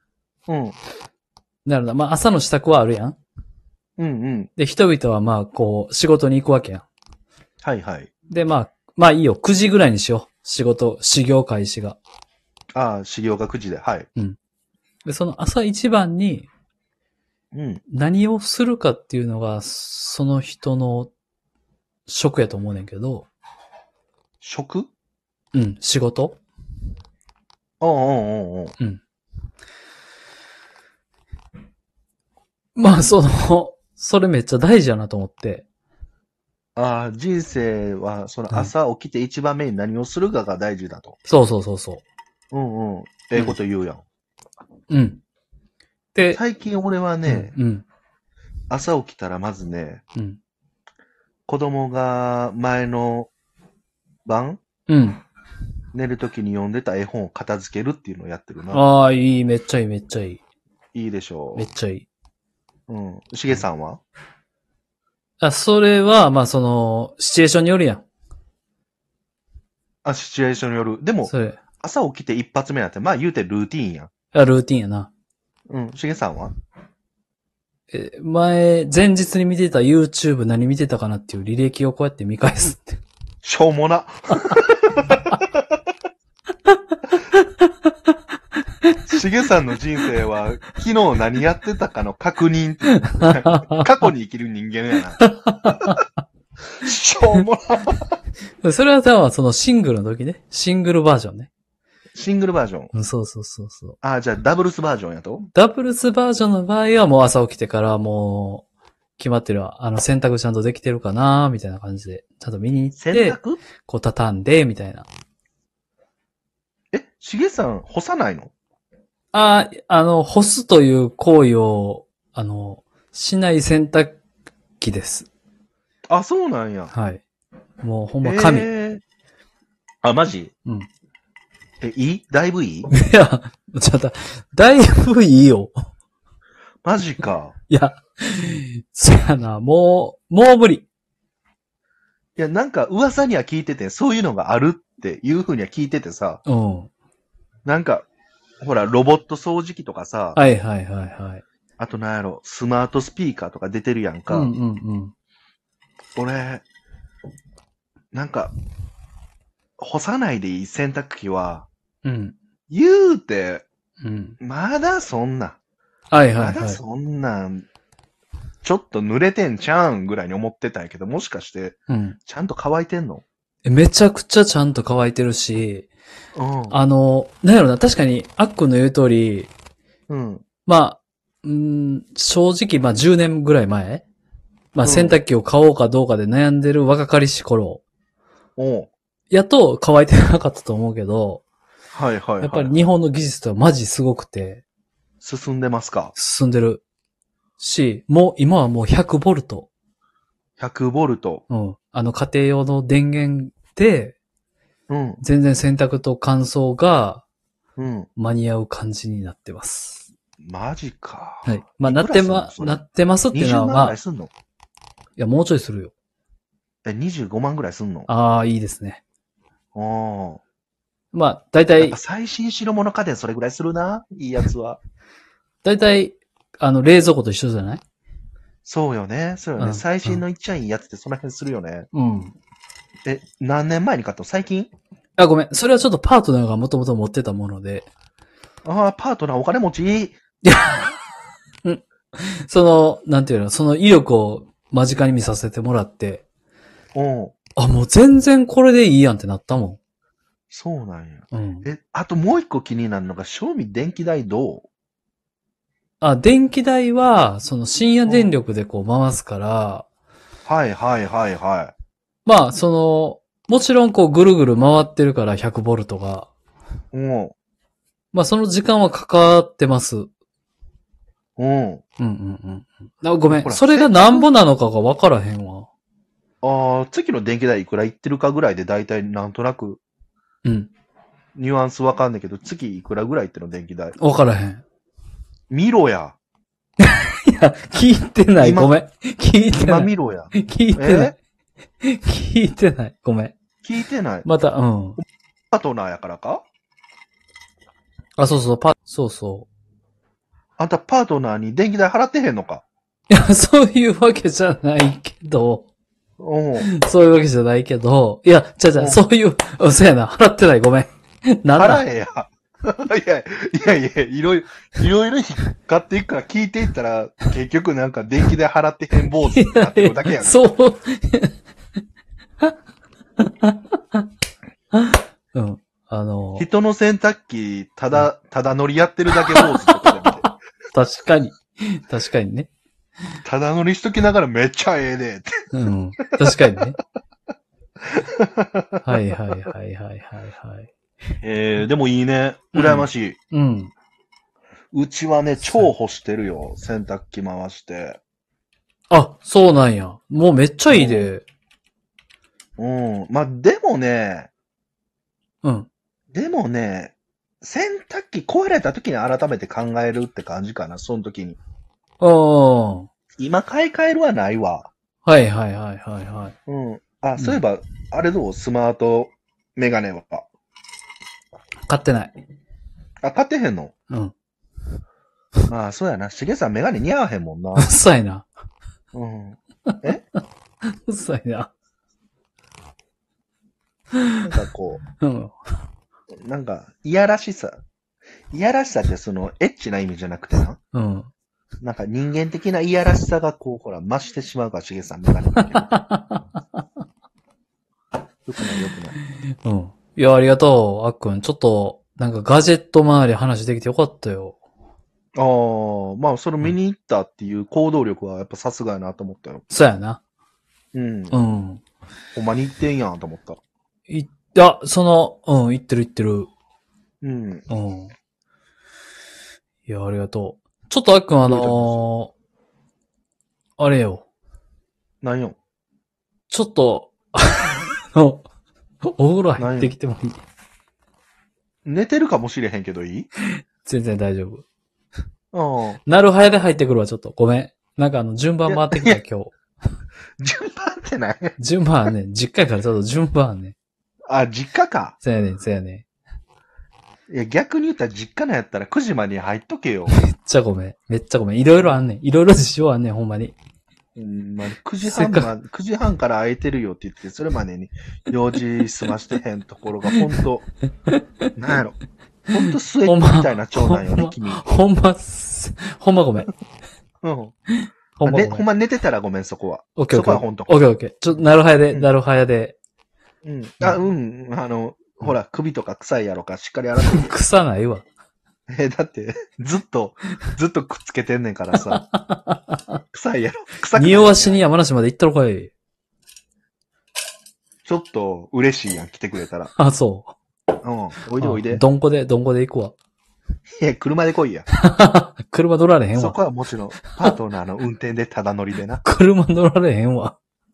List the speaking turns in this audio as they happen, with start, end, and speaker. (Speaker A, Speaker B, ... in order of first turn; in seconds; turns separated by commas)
Speaker A: 0.5-0.8, Speaker B: 1.6-3.2, Speaker A: 4.0-4.5, Speaker B: 4.6-6.8, Speaker A: 7.6-8.1, Speaker B: 8.3-12.0, Speaker A: 12.7-14.1, Speaker B: 15.1-16.5, Speaker A: 17.5-17.8, Speaker B: 17.9-21.1, Speaker B: 22.1-23.3, Speaker A: 24.4-24.9, Speaker B: 25.5-26.4, Speaker A: 27.8-28.7, Speaker B: 32.8-35.6, Speaker A: 36.8-41.2, Speaker B: 41.2-42.0, Speaker A: 42.5-44.0, Speaker B: 44.9-45.2, Speaker B: 46.1-46.4, Speaker A: 46.3-47.5, Speaker B: 47.2-47.8, Speaker A: 48.7-50.0, Speaker A: 51.5-53.3, Speaker A: 54.2-54.6, Speaker B: 54.9-55.2, Speaker A: 55.9-58.8, Speaker B: 58.7-60.4, Speaker A: 60.9-61.7, Speaker B: 61.5-62.1, Speaker A: 62.9-64.0, Speaker B: 65.4-68.0, Speaker A: 70.0-74.1, Speaker B: 71.2-71.6, Speaker B: 74.3-75.1, Speaker A: 75.7-76.5, Speaker B: 77.9-83.0, Speaker A: 83.4-85.6, Speaker B: 87.3-87.7, Speaker A: 89.1-95.2, Speaker B: 93.0-93.8, Speaker B: 95.2-96.0, Speaker A: 96.8-98.1, Speaker B: 98.6-101.5, Speaker A: 102.1-102.9, Speaker B: 102.9-104.0, Speaker A: 104.0-105.5, Speaker B: 105.5-108.7, Speaker B: 109.2-115.1, Speaker A: 113.0-113.6, Speaker A: 116.9-118.5, Speaker B: 119.3-124.2, Speaker B: 124.8-125.3, Speaker A: 126.1-126.9, Speaker B: 126.9-127.2, Speaker B: 127.8-128.7, Speaker A: 128.2-129.0, Speaker A: 130.0-130.5, Speaker A: 131.8-132.9, Speaker B: 132.9-135.7, Speaker A: 136.8-137.5, Speaker B: 137.7-140.8, Speaker A: 142.4-146.4, Speaker B: 146.4-146.9, Speaker A: 147.6-148.1, Speaker A: 148.6-150.4, Speaker B: 150.3-151.4, Speaker A: 151.8-154.5, Speaker B: 154.3-155.1, Speaker A: 156.2-156.6, Speaker A: 158.1-158.5, Speaker A: 159.8-161.7, Speaker B: 162.0-162.3, Speaker A: 162.7-163.7, Speaker B: 164.0-164.4, Speaker A: 164.4-165.6, Speaker B: 166.1-166.8, Speaker A: 166.4-167.7, Speaker A: 168.6-173.2, Speaker B: 171.9-172.2, Speaker B: 173.6-175.9, Speaker A: 176.3-176.8, Speaker B: 176.7-179.5, Speaker A: 180.1-180.4, Speaker B: 180.7-184.0, Speaker B: 184.7-187.8, Speaker A: 184.8-185.2, Speaker A: 188.6-188.9, Speaker B: 189.3-191.4, Speaker A: 191.9-192.8, Speaker B: 192.4-194.6, Speaker A: 195.2-196.1, Speaker B: 196.1-196.8, Speaker B: 197.6-199.7, Speaker A: 200.6-201.4, Speaker B: 201.5-204.2, Speaker A: 204.9-205.2, Speaker B: 205.2-207.2, Speaker A: 207.8-208.1, Speaker B: 208.2-210.1, Speaker A: 210.4-214.3, Speaker B: 211.4-214.0, Speaker B: 215.2-215.9, Speaker A: 216.8-218.1, Speaker B: 218.1-219.0, Speaker A: 219.7-220.4, Speaker B: 221.1-222.0, Speaker A: 221.8-224.8, Speaker B: 225.6-227.8, Speaker A: 228.6-231.9, Speaker B: 229.6-230.2, Speaker B: 231.9-232.3, Speaker A: 233.0-234.7, Speaker B: 235.2-237.9, Speaker A: 238.6-240.2, Speaker B: 240.4-240.9, Speaker B: 241.6-246.2, Speaker A: 246.9-247.3, Speaker B: 247.6-249.8, Speaker A: 250.5-254.7, Speaker B: 251.3-251.7, Speaker B: 256.0-259.9, Speaker A: 258.1-258.3, Speaker A: 260.4-261.7, Speaker B: 262.2-266.3, Speaker A: 266.9-267.3, Speaker B: 268.1-270.1, Speaker A: 271.4-271.8, Speaker B: 272.0-275.7, Speaker A: 273.3-274.3, Speaker A: 276.4-279.8, Speaker B: 280.4-280.7, Speaker A: 281.3-283.9, Speaker B: 284.0-284.6, Speaker A: 285.5-286.2, Speaker B: 286.8-291.1, Speaker A: 288.4-288.7, Speaker A: 289.5-291.1, Speaker B: 291.8-293.4, Speaker A: 293.6-294.3, Speaker B: 294.2-295.0, Speaker A: 295.5-296.4, Speaker B: 298.2-299.5, Speaker A: 300.6-302.6, Speaker B: 303.1-305.7, Speaker A: 306.2-306.7, Speaker B: 306.6-311.8, Speaker A: 308.8-309.0, Speaker A: 311.5-320.4, Speaker B: 319.3-321.4, Speaker B: 323.2-324.0, Speaker B: 324.7-326.4, Speaker A: 326.4-330.2, Speaker B: 329.5-332.5, Speaker A: 333.2-335.3, Speaker B: 335.5-336.8, Speaker A: 336.2-336.6, Speaker A: 337.9-338.9, Speaker B: 338.8-340.7, Speaker A: 341.2-343.2, Speaker B: 342.5-343.7, Speaker A: 344.7-348.0, Speaker B: 345.4-345.7, Speaker B: 348.9-351.2, Speaker A: 350.7-351.1, Speaker A: 352.6-354.3, Speaker B: 355.4-355.7, Speaker A: 356.1-361.4, Speaker B: 362.0-362.9, Speaker A: 363.2-364.7, Speaker B: 365.1-366.3, Speaker A: 366.5-370.2, Speaker B: 371.7-372.1, Speaker A: 373.0-373.7, Speaker A: 375.5-377.7, Speaker B: 377.6-378.3, Speaker A: 378.9-380.0, Speaker B: 380.7-381.5, Speaker B: 384.0-384.2, Speaker A: 384.2-384.8, Speaker B: 385.0-385.4, Speaker A: 386.2-387.6, Speaker A: 388.3-390.6, Speaker B: 390.7-391.1, Speaker A: 391.6-395.7, Speaker B: 395.5-396.2, Speaker A: 398.2-398.9, Speaker B: 399.4-404.4, Speaker A: 405.1-409.4, Speaker B: 409.5-410.0, Speaker A: 410.7-411.2, Speaker B: 411.1-411.6, Speaker A: 412.1-413.4, Speaker B: 413.9-416.3, Speaker A: 417.0-417.5, Speaker B: 417.5-417.9, Speaker B: 419.7-422.1, Speaker A: 421.2-421.8, Speaker B: 423.6-424.0, Speaker A: 425.0-425.4, Speaker B: 426.3-428.2, Speaker B: 428.8-430.2, Speaker A: 429.4-429.7, Speaker A: 431.6-433.1, Speaker B: 433.6-434.4, Speaker A: 435.3-435.8, Speaker B: 435.9-439.3, Speaker A: 438.5-439.0, Speaker A: 440.2-441.4, Speaker B: 441.4-443.6, Speaker A: 444.1-444.9, Speaker B: 445.0-445.8, Speaker A: 447.1-450.0, Speaker B: 449.9-453.3, Speaker A: 453.9-460.5, Speaker B: 454.8-455.3, Speaker B: 460.9-461.3, Speaker A: 461.4-461.8, Speaker A: 462.3-464.4, Speaker B: 462.8-466.3, Speaker A: 467.0-467.3, Speaker B: 467.6-468.4, Speaker A: 468.0-470.6, Speaker B: 469.8-472.6, Speaker A: 473.2-477.1, Speaker B: 476.9-477.8, Speaker A: 478.5-481.8, Speaker B: 481.7-482.8, Speaker A: 482.9-484.4, Speaker B: 483.8-485.5, Speaker A: 487.6-489.5, Speaker B: 489.6-490.1, Speaker A: 490.6-491.6, Speaker B: 491.2-492.7, Speaker A: 493.5-494.4, Speaker B: 494.6-496.2, Speaker A: 495.9-498.8, Speaker B: 498.8-500.1